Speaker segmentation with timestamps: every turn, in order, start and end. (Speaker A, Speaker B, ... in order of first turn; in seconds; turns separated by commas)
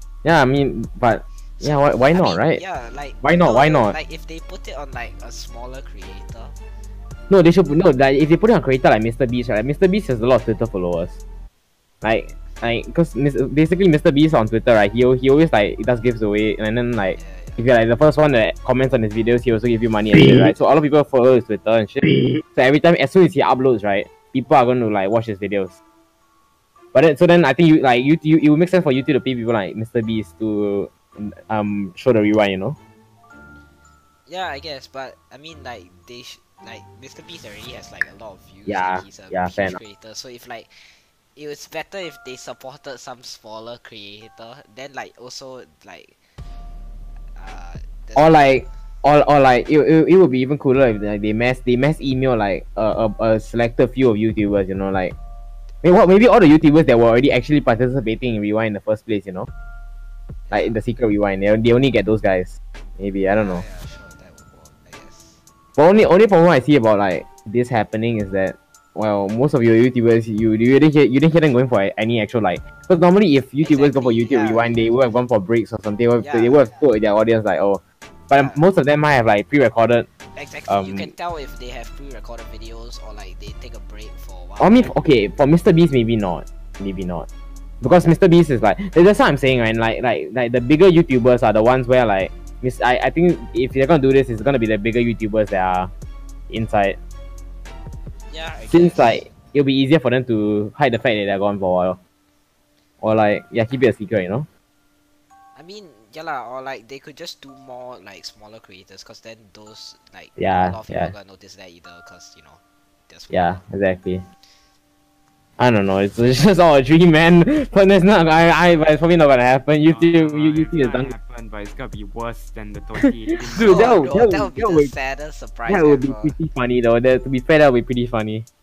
Speaker A: 0.2-2.6, Speaker B: 1.6-6.5, Speaker A: 3.2-4.0, Speaker A: 7.3-11.2, Speaker A: 12.0-25.7, Speaker B: 17.1-17.6, Speaker A: 26.9-32.8, Speaker B: 34.2-46.2, Speaker A: 38.6-39.8, Speaker B: 47.2-48.7, Speaker A: 48.1-55.1, Speaker A: 55.8-59.5, Speaker B: 60.5-60.8, Speaker A: 60.5-63.6, Speaker B: 63.3-65.4, Speaker A: 65.8-80.1, Speaker B: 73.6-75.0, Speaker B: 76.2-76.8, Speaker B: 78.3-78.6, Speaker B: 80.3-85.0, Speaker A: 80.7-81.1, Speaker A: 84.6-87.3, Speaker A: 87.8-95.9, Speaker A: 96.5-97.0, Speaker B: 98.3-99.2, Speaker A: 98.7-102.0, Speaker A: 103.0-104.5, Speaker B: 105.5-113.6, Speaker A: 110.4-111.1, Speaker A: 113.3-114.2, Speaker A: 115.6-121.1, Speaker C: 119.8-124.0, Speaker A: 123.3-124.9, Speaker B: 123.5-126.4, Speaker A: 125.7-128.4